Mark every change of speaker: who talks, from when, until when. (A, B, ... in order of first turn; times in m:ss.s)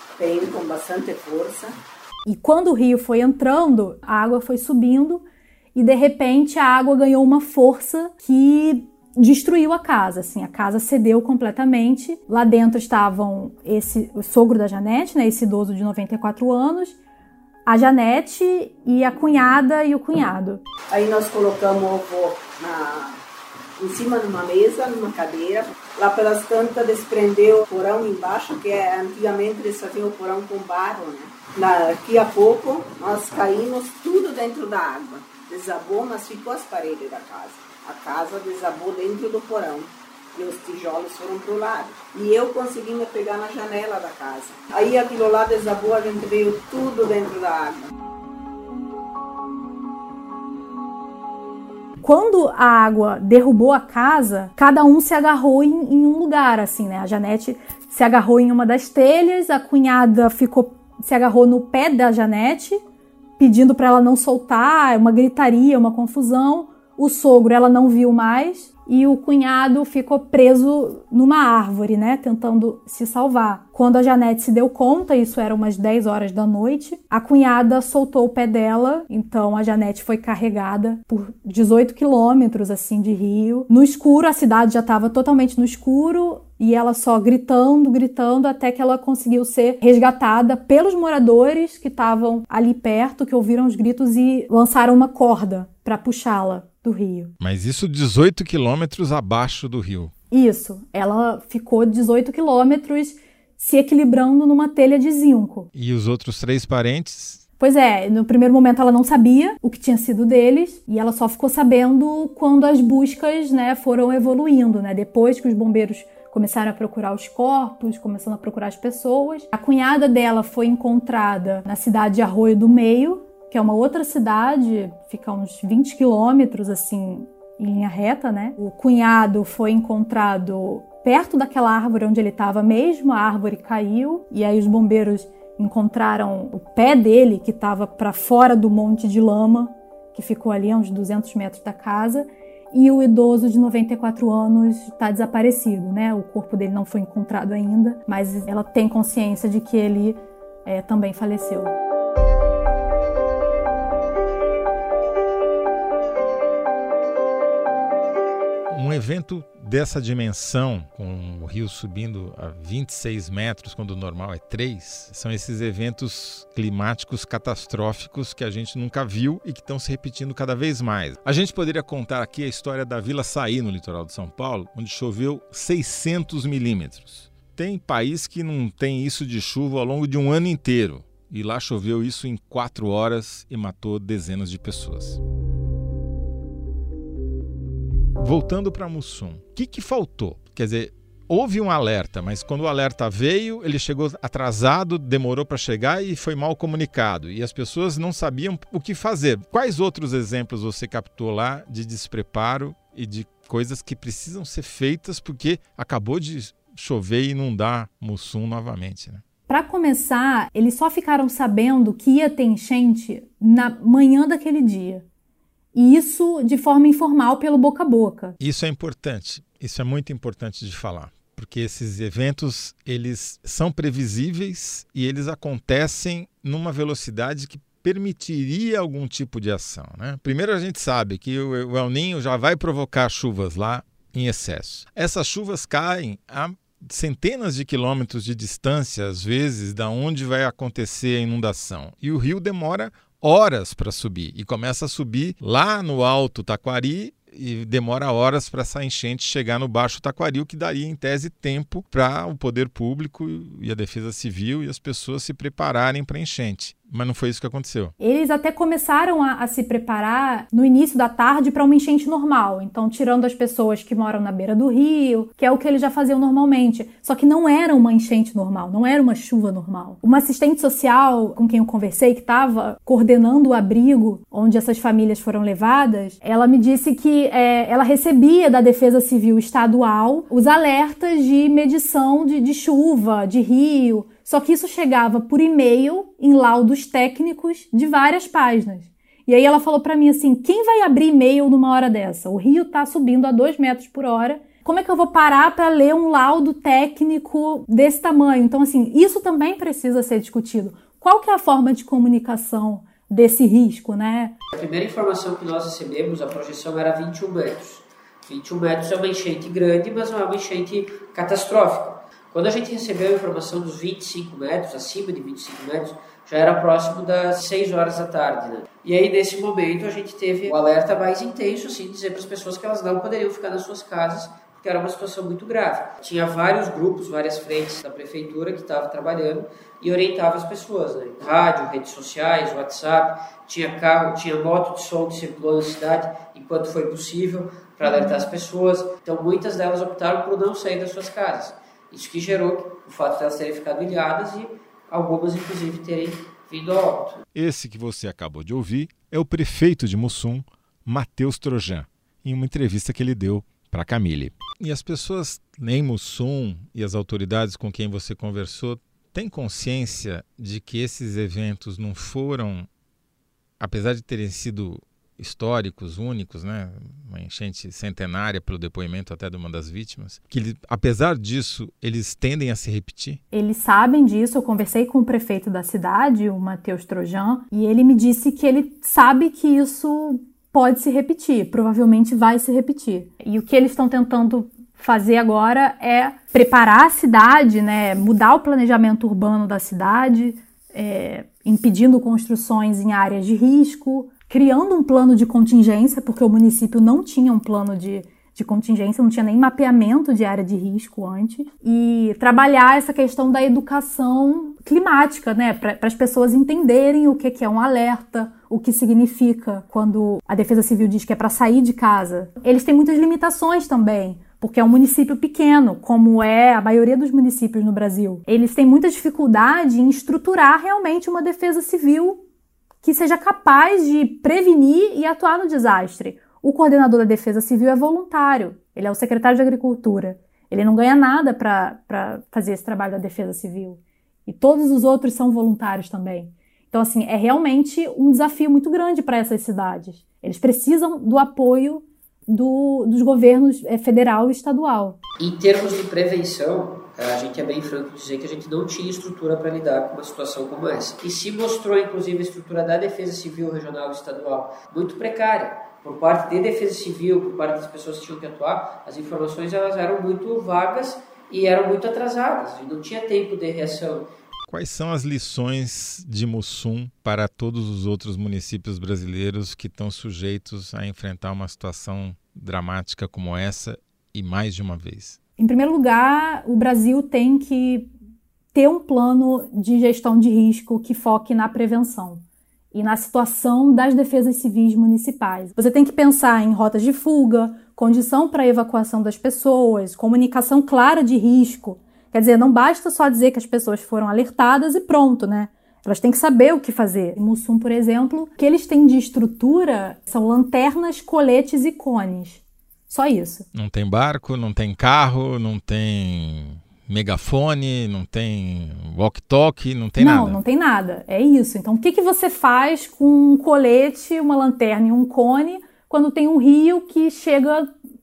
0:00.2-0:01.8 A
0:02.2-0:05.2 B
0:05.7-0:17.0 B
0:17.6-0:20.6 B
0:20.9-0:23.2 A
0:23.8-0:47.9 A
0:52.0-1:02.8 B
1:03.4-1:37.3 B
1:37.4-1:40.1 C
1:40.3-1:45.7 B
1:45.7-1:47.4 C
1:47.6-2:31.7 B
2:38.7-3:05.2 C
3:08.2-3:29.2 C
3:29.5-3:35.0 B
3:35.7-3:38.4 B
3:38.4-4:17.9 C
4:18.0-5:04.3 B
5:04.5-5:47.2 D
5:47.3-6:02.7 C
6:03.6-6:13.2 C
6:13.3-7:02.2 B
7:02.8-7:25.0 B
7:25.2-7:44.1 D
7:44.5-7:55.2 C
7:55.4-7:57.9 B
7:58.5-8:23.5 B
8:23.5-8:30.4 C
8:30.0-8:37.7 B